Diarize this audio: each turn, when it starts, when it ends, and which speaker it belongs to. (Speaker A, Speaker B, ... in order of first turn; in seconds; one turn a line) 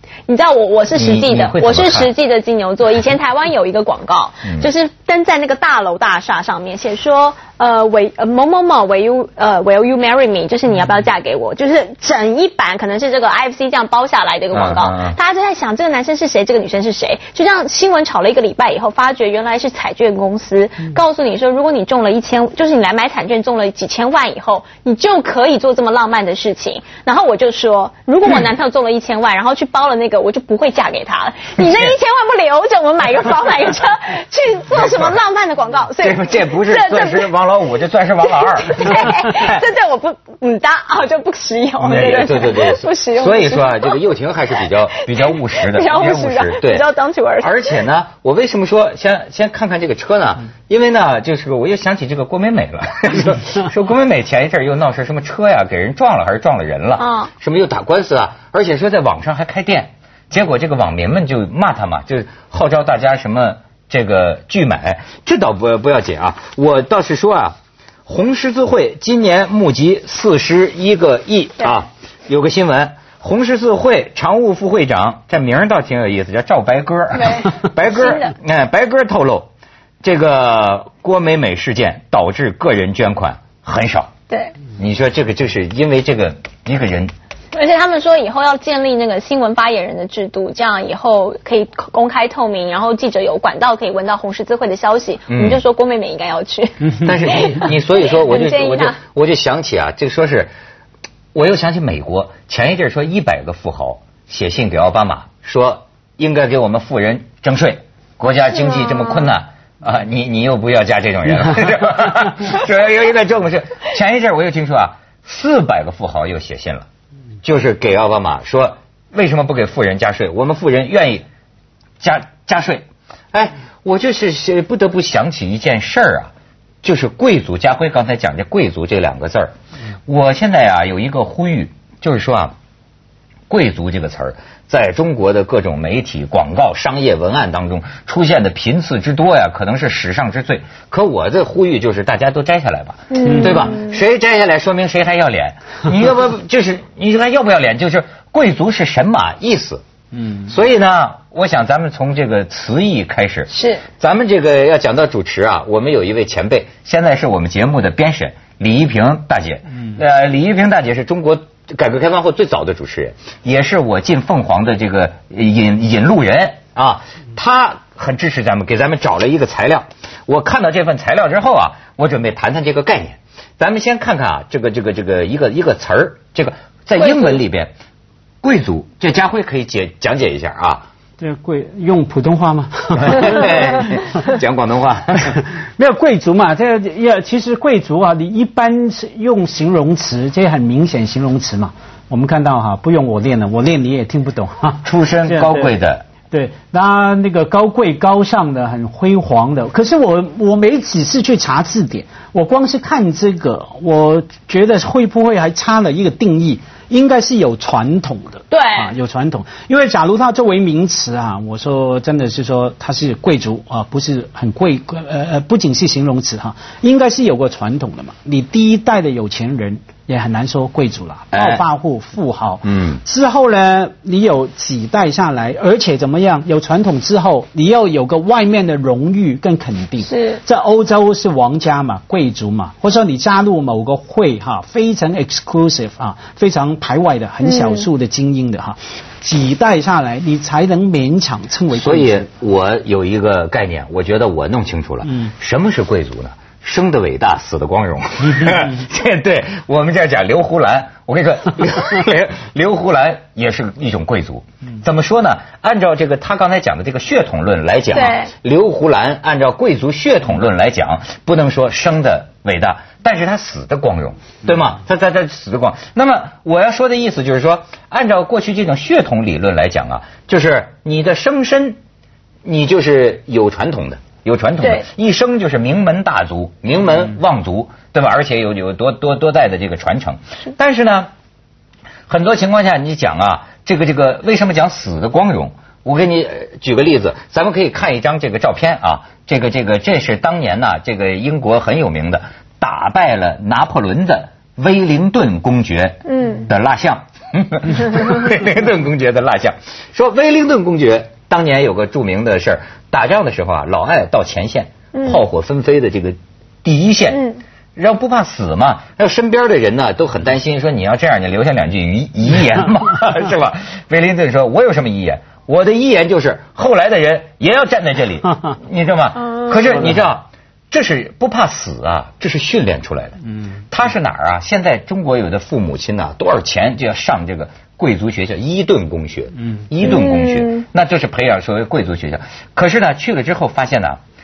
Speaker A: 0.3-37.3
Speaker B: 0.9-2.1
Speaker B: 14.5-15.2
Speaker B: 31.6-31.9
Speaker B: 34.7-35.2
Speaker B: 36.0-39.6
Speaker A: 38.4-44.0
Speaker B: 41.8-79.5
Speaker A: 45.0-47.7
Speaker A: 57.0-57.3
Speaker A: 77.2-78.3
Speaker B: 80.0-84.1
Speaker A: 84.3-84.5
Speaker B: 84.8-87.1
Speaker A: 87.5-99.0
Speaker B: 95.3-95.6
Speaker B: 97.0-100.5
Speaker B: 101.3-116.9
Speaker A: 108.8-109.3
Speaker B: 117.4-121.3
Speaker B: 122.0-126.3
Speaker B: 126.8-129.5
Speaker B: 130.1-132.6
Speaker B: 133.5-149.8
Speaker A: 143.1-144.0
Speaker B: 150.4-177.7
Speaker A: 153.5-153.8
Speaker A: 177.1-177.4
Speaker B: 178.4-180.9
Speaker C: 181.2-183.6
Speaker B: 182.9-185.4
Speaker C: 185.4-195.7
Speaker B: 194.8-196.1
Speaker C: 196.3-242.3
Speaker A: 208.5-208.9
Speaker B: 221.3-221.6
Speaker B: 222.7-223.0
Speaker A: 230.1-230.4
Speaker A: 237.4-237.9
Speaker B: 241.7-271.8
Speaker A: 257.9-258.3
Speaker B: 272.4-281.1
Speaker A: 274.6-274.9
Speaker B: 282.1-307.2
Speaker A: 296.1-296.5
Speaker A: 304.9-305.2
Speaker A: 307.1-307.4
Speaker B: 307.8-323.2
Speaker B: 323.7-334.0
Speaker A: 329.8-330.6